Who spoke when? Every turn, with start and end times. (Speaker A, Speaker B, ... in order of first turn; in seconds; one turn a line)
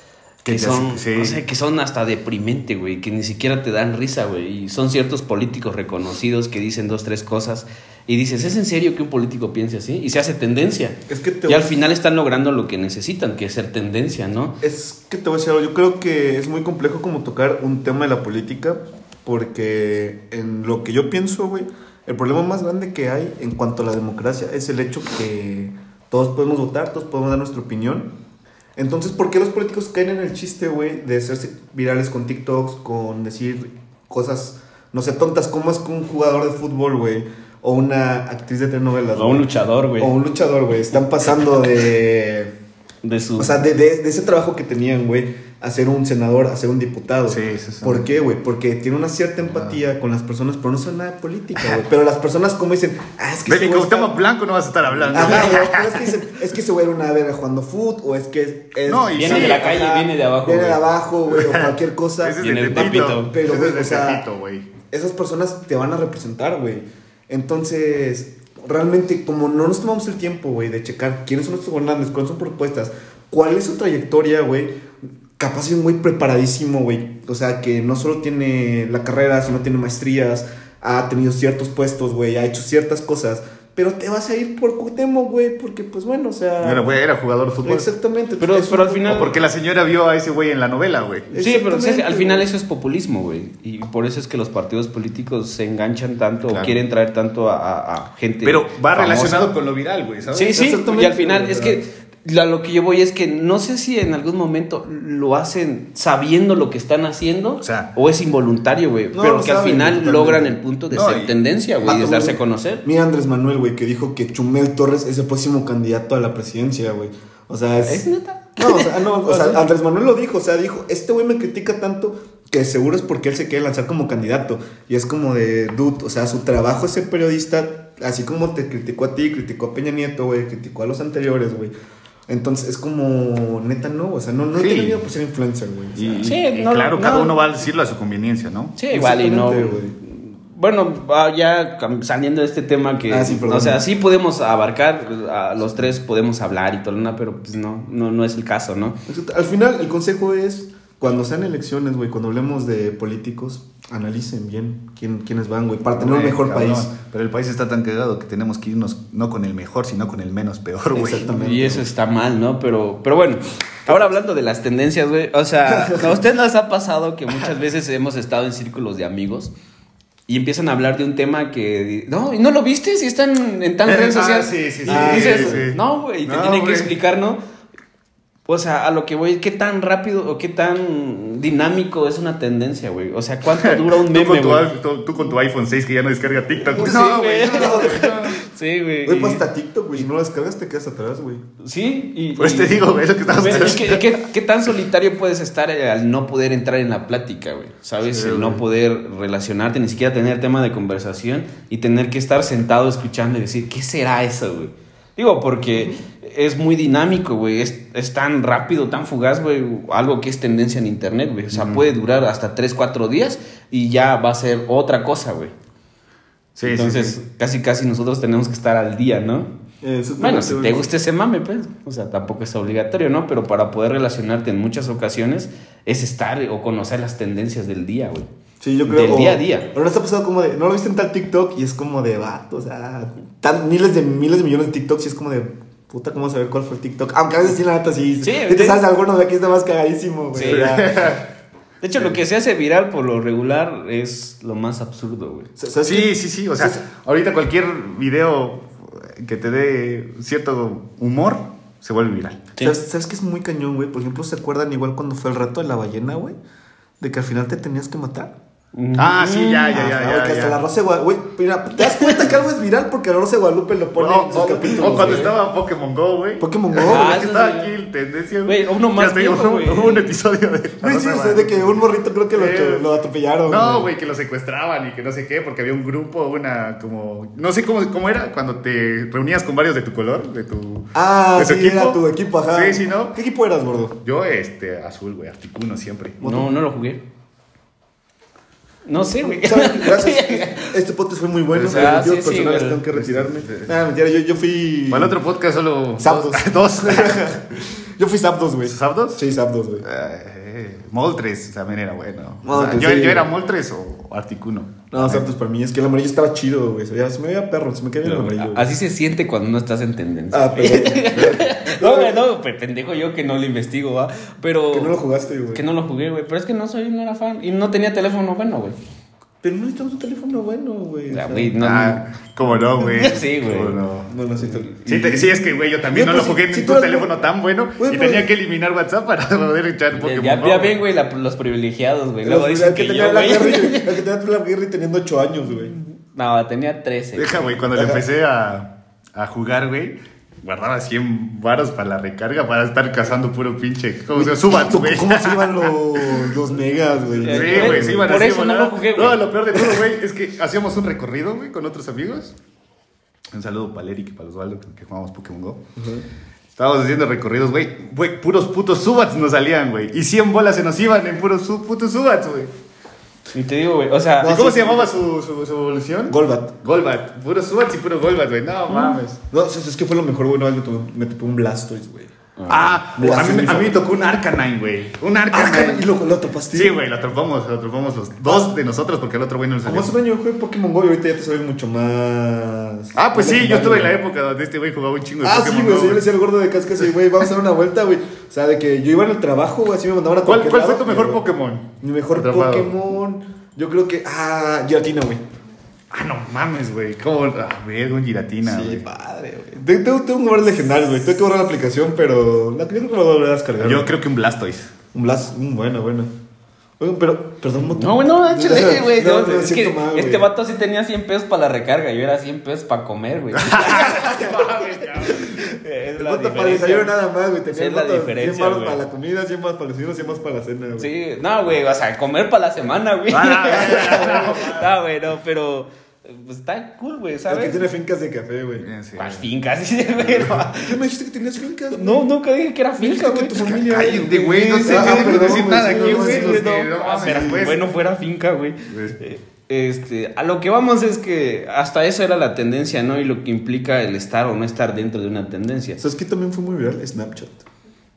Speaker A: 0.5-1.4
Speaker B: 0.5-14.6
Speaker C: 11.1-11.8
Speaker C: 14.6-28.1
Speaker C: 28.8-42.5
Speaker B: 39.1-40.1
Speaker B: 43.0-43.6
Speaker C: 43.4-54.2
Speaker A: 47.3-48.0
Speaker A: 53.5-56.1
Speaker C: 55.1-64.2
Speaker A: 58.9-59.7
Speaker B: 59.1-60.8
Speaker A: 61.3-64.7
Speaker B: 62.4-63.3
Speaker C: 64.9-74.7
Speaker C: 75.4-87.0
Speaker A: 86.6-87.9
Speaker C: 87.6-89.3
Speaker B: 88.4-89.4
Speaker A: 89.1-91.3
Speaker C: 91.3-92.5
Speaker B: 91.3-99.5
Speaker A: 96.5-96.8
Speaker A: 98.4-100.6
Speaker B: 100.3-112.8
Speaker C: 100.5-101.8
Speaker A: 107.6-107.9
Speaker C: 109.1-110.6
Speaker A: 110.9-111.3
Speaker C: 111.8-118.1
Speaker B: 117.8-119.6
Speaker C: 118.6-131.7
Speaker C: 132.3-136.3
Speaker A: 134.6-135.0
Speaker A: 136.0-138.8
Speaker B: 136.2-137.4
Speaker B: 138.8-149.0
Speaker C: 138.9-140.0
Speaker C: 143.1-143.9
Speaker C: 149.1-156.9
Speaker A: 156.0-161.3
Speaker C: 160.9-161.9
Speaker B: 161.2-169.5
Speaker C: 165.7-166.2
Speaker B: 170.3-177.4
Speaker A: 173.8-176.9
Speaker C: 174.9-175.7
Speaker B: 178.5-184.7
Speaker A: 183.6-188.4
Speaker B: 186.7-189.4
Speaker C: 186.7-188.2
Speaker C: 189.1-191.4
Speaker B: 191.6-215.5
Speaker A: 192.4-194.2
Speaker C: 198.2-198.6
Speaker A: 211.5-211.9
Speaker A: 216.6-217.2
Speaker B: 216.7-219.5
Speaker C: 219.8-220.9
Speaker B: 220.2-228.3
Speaker C: 228.6-241.0
Speaker B: 228.9-229.7
Speaker B: 238.2-238.8
Speaker B: 240.3-240.8
Speaker A: 240.4-241.3
Speaker B: 241.8-245.5
Speaker C: 245.6-246.8
Speaker A: 245.8-252.5
Speaker C: 252.6-256.4
Speaker C: 257.0-258.3
Speaker B: 258.7-259.8
Speaker A: 258.9-260.6
Speaker C: 259.7-265.3
Speaker B: 261.8-262.3
Speaker A: 264.0-271.8
Speaker B: 264.4-265.3
Speaker C: 266.4-267.2
Speaker B: 266.8-267.7
Speaker B: 268.5-270.1
Speaker C: 270.8-273.9
Speaker A: 272.3-272.9
Speaker A: 273.5-282.0
Speaker C: 280.9-284.0
Speaker A: 282.5-283.2
Speaker A: 284.0-286.2
Speaker B: 286.2-287.0
Speaker C: 286.2-286.5
Speaker B: 288.9-290.8
Speaker C: 289.2-295.2
Speaker A: 291.5-292.0
Speaker B: 291.6-292.9
Speaker A: 293.0-293.7
Speaker A: 294.9-297.3
Speaker C: 296.0-299.9
Speaker A: 298.7-299.2
Speaker A: 299.8-305.3
Speaker C: 302.4-303.3
Speaker C: 304.9-308.7
Speaker B: 308.0-315.0
Speaker C: 310.3-312.2
Speaker C: 314.7-315.6
Speaker B: 315.5-318.8
Speaker C: 319.4-321.6
Speaker B: 321.1-322.0
Speaker A: 321.6-324.1
Speaker B: 322.8-323.8
Speaker C: 324.1-325.3
Speaker B: 324.4-325.2
Speaker A: 324.9-330.8
Speaker C: 325.9-327.1
Speaker C: 327.8-328.3
Speaker B: 329.9-334.0
Speaker C: 332.2-335.8
Speaker B: 335.7-337.6
Speaker A: 337.2-346.3
Speaker C: 337.8-338.0
Speaker C: 344.1-348.3
Speaker B: 347.2-349.3
Speaker A: 347.3-352.4
Speaker A: 353.3-355.6
Speaker C: 355.8-356.0
Speaker A: 356.6-362.5
Speaker B: 363.3-364.4
Speaker C: 364.2-364.9
Speaker A: 364.2-369.2
Speaker C: 366.1-366.6
Speaker B: 368.7-369.0
Speaker C: 369.3-372.1
Speaker B: 372.4-372.8
Speaker A: 372.5-375.9
Speaker C: 372.9-373.8
Speaker C: 375.3-376.8
Speaker A: 376.5-379.9
Speaker C: 378.2-378.5
Speaker C: 379.7-383.9
Speaker A: 382.9-386.1
Speaker C: 385.2-391.2
Speaker A: 390.3-392.8
Speaker C: 391.8-395.2
Speaker A: 395.9-398.9
Speaker C: 398.4-403.9
Speaker A: 403.6-404.7
Speaker C: 404.9-406.1
Speaker C: 406.8-410.3
Speaker B: 407.7-414.4
Speaker A: 413.3-415.4
Speaker C: 413.7-414.4
Speaker B: 415.0-417.0
Speaker C: 416.0-420.9
Speaker B: 417.5-418.8
Speaker B: 420.8-427.6
Speaker A: 423.1-424.7
Speaker C: 423.5-424.5
Speaker C: 427.3-428.7
Speaker A: 428.6-429.3
Speaker B: 429.0-430.8
Speaker C: 430.5-432.1
Speaker B: 431.7-445.8
Speaker C: 432.8-437.4
Speaker A: 433.4-437.6
Speaker A: 438.7-439.0
Speaker C: 445.8-447.4